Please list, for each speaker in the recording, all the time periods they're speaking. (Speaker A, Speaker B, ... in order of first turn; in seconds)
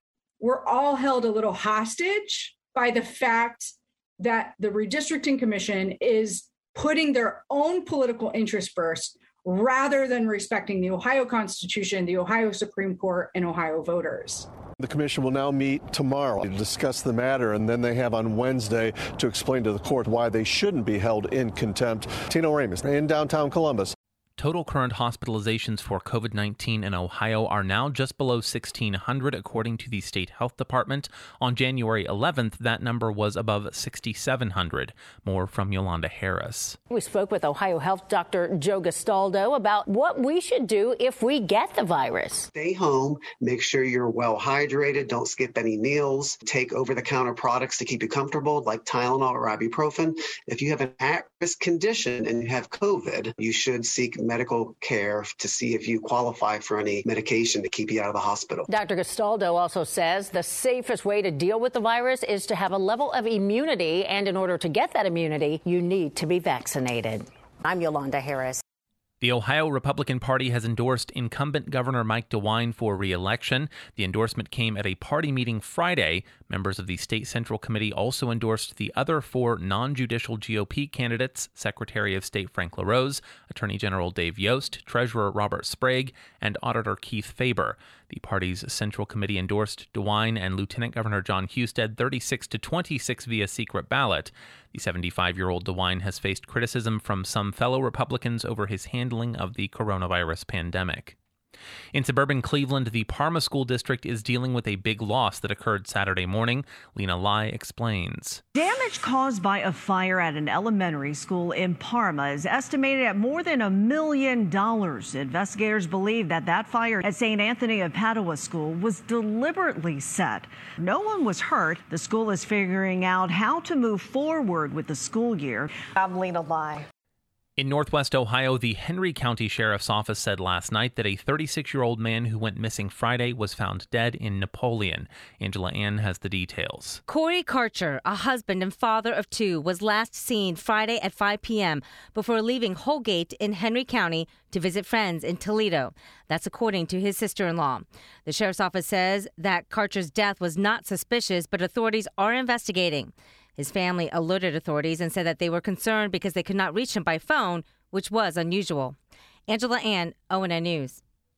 Speaker A: 0.4-14.5
Speaker B: 14.8-23.9
Speaker C: 24.4-36.8, 69.2-101.2, 101.9-108.4, 127.6-137.0
Speaker D: 36.9-42.5, 58.7-68.6
Speaker E: 42.5-58.7
Speaker F: 108.5-126.6
Speaker G: 137.1-159.0, 159.5-161.0